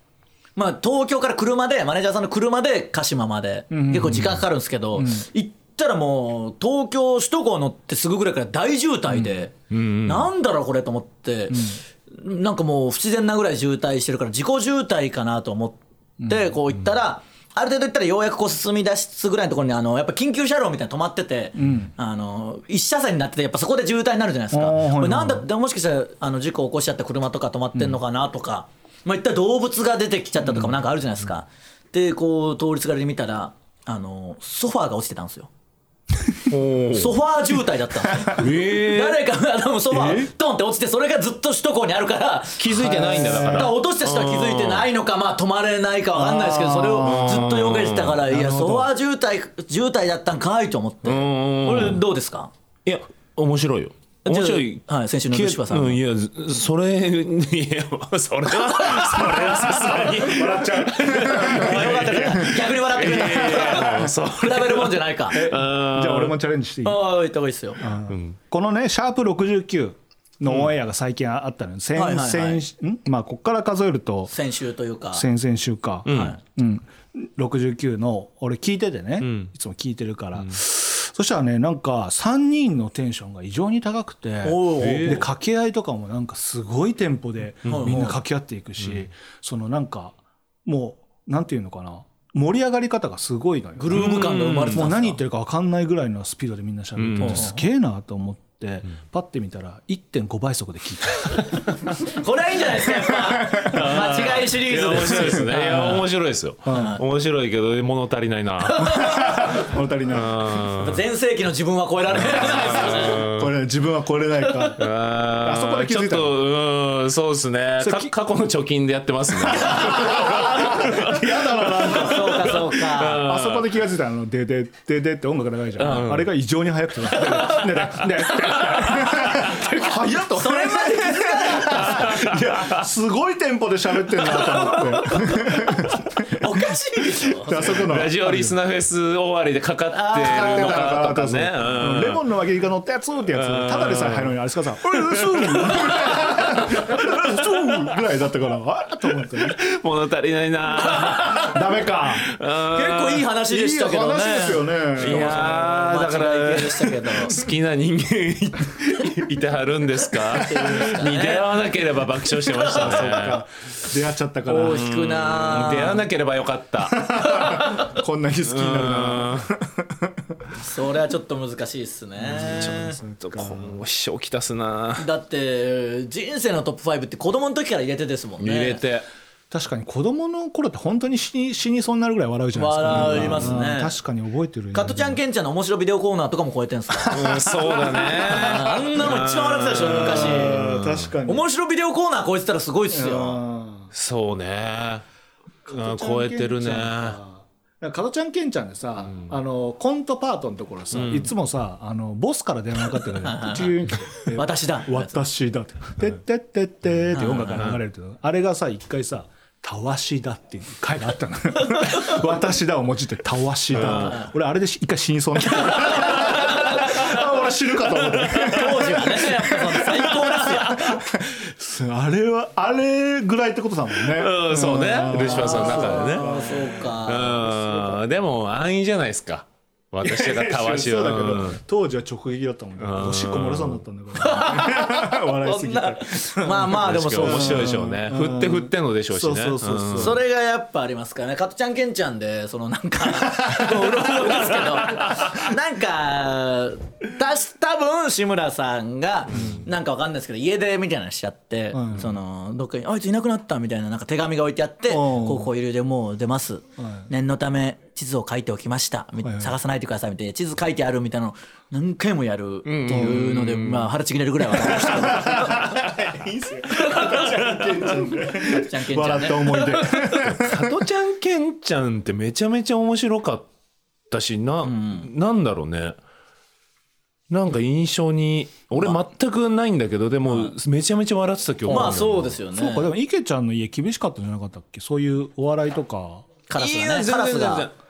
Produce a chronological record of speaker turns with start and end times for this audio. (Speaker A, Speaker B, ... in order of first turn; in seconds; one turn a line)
Speaker A: 0.6-9.5
Speaker B: 3.7-4.4
Speaker B: 5.0-5.2
Speaker C: 9.7-10.3
Speaker A: 10.1-35.5
Speaker B: 11.5-11.8
Speaker B: 16.2-16.5
Speaker B: 21.6-21.9
Speaker B: 24.5-25.5
Speaker C: 36.5-37.1
Speaker A: 36.9-52.5
Speaker B: 38.0-38.4
Speaker C: 38.3-39.2
Speaker B: 39.9-40.3
Speaker C: 42.6-44.9
Speaker B: 42.7-43.7
Speaker B: 46.1-47.6
Speaker C: 47.0-48.2
Speaker B: 48.3-48.9
Speaker C: 51.0-52.0
Speaker C: 52.9-66.4
Speaker A: 54.2-56.0
Speaker A: 58.8-59.3
Speaker B: 59.0-62.7
Speaker A: 61.3-65.4
Speaker B: 63.2-63.9
Speaker B: 65.3-67.0
Speaker A: 66.8-67.8
Speaker B: 67.8-74.3
Speaker C: 68.1-68.4
Speaker A: 71.9-72.6
Speaker A: 74.3-75.2
Speaker B: 75.1-101.6
Speaker C: 76.0-76.4
Speaker A: 76.1-76.4
Speaker C: 79.2-79.5
Speaker A: 84.4-85.2
Speaker C: 84.8-85.2
Speaker A: 87.7-88.2
Speaker C: 87.7-88.0
Speaker A: 93.8-95.2
Speaker C: 93.9-94.8
Speaker C: 97.0-97.5
Speaker A: 97.2-97.6
Speaker A: 102.0-106.0
Speaker B: 103.1-103.7
Speaker C: 103.7-109.3
Speaker B: 105.4-106.0
Speaker B: 106.6-107.0
Speaker A: 106.7-107.0
Speaker A: 108.7-109.5
Speaker B: 108.8-110.6
Speaker C: 110.1-111.0
Speaker A: 110.8-113.2
Speaker C: 112.2-113.5
Speaker B: 112.3-114.8
Speaker C: 114.8-121.2
Speaker B: 115.4-116.4
Speaker B: 117.8-118.1
Speaker B: 119.6-136.3
Speaker A: 119.8-120.6
Speaker C: 121.8-123.7
Speaker A: 121.8-123.2
Speaker C: 125.8-126.3
Speaker A: 128.4-132.2
Speaker C: 131.7-132.8
Speaker C: 134.3-135.6
Speaker A: 136.3-137.7
Speaker B: 137.4-138.6
Speaker C: 137.5-142.2
Speaker A: 139.9-140.9
Speaker B: 140.2-149.6
Speaker C: 143.3-144.4
Speaker C: 144.9-147.2
Speaker C: 149.4-151.6
Speaker A: 150.9-151.5
Speaker B: 151.4-152.2
Speaker C: 152.2-153.2
Speaker A: 152.7-157.3
Speaker B: 153.5-155.6
Speaker C: 155.0-163.4
Speaker A: 160.3-161.7
Speaker A: 162.4-163.4
Speaker B: 162.7-164.9
Speaker A: 164.5-166.1
Speaker C: 164.6-167.5
Speaker B: 166.9-170.5
Speaker C: 168.4-169.5
Speaker A: 170.6-173.0
Speaker B: 172.2-173.7
Speaker C: 172.3-175.1
Speaker A: 175.0-178.8
Speaker C: 178.4-179.1
Speaker B: 179.5-185.2
Speaker A: 182.5-183.9
Speaker C: 183.0-183.5
Speaker A: 184.7-187.5
Speaker C: 187.1-191.1
Speaker B: 187.2-188.6
Speaker A: 188.1-193.4
Speaker B: 189.9-191.4
Speaker B: 192.9-193.9
Speaker C: 193.9-195.0
Speaker B: 195.7-226.9
Speaker C: 195.7-197.2
Speaker C: 200.9-201.3
Speaker A: 203.2-205.1
Speaker A: 207.1-207.7
Speaker C: 213.8-214.1
Speaker A: 213.8-214.3
Speaker A: 215.7-217.1
Speaker C: 216.1-216.7
Speaker C: 218.2-218.5
Speaker A: 218.4-221.0
Speaker C: 224.1-231.6
Speaker A: 225.1-227.9
Speaker B: 230.0-240.2
Speaker C: 232.8-233.8
Speaker A: 234.2-237.8
Speaker C: 236.8-240.2
Speaker A: 239.9-265.8
Speaker B: 243.4-243.8
Speaker C: 244.8-245.3
Speaker B: 249.3-249.6
Speaker B: 251.7-252.1
Speaker B: 254.9-255.5
Speaker B: 256.8-257.1
Speaker B: 259.2-259.5
Speaker C: 262.6-263.9
Speaker B: 262.9-263.2
Speaker B: 264.6-270.8
Speaker C: 266.8-267.6
Speaker A: 266.9-269.9
Speaker C: 269.9-273.5
Speaker C: 274.1-276.0
Speaker A: 274.6-275.1
Speaker C: 277.3-282.4
Speaker A: 280.3-280.5
Speaker A: 281.6-282.9
Speaker B: 281.7-286.3
Speaker A: 286.5-287.7
Speaker C: 286.6-287.7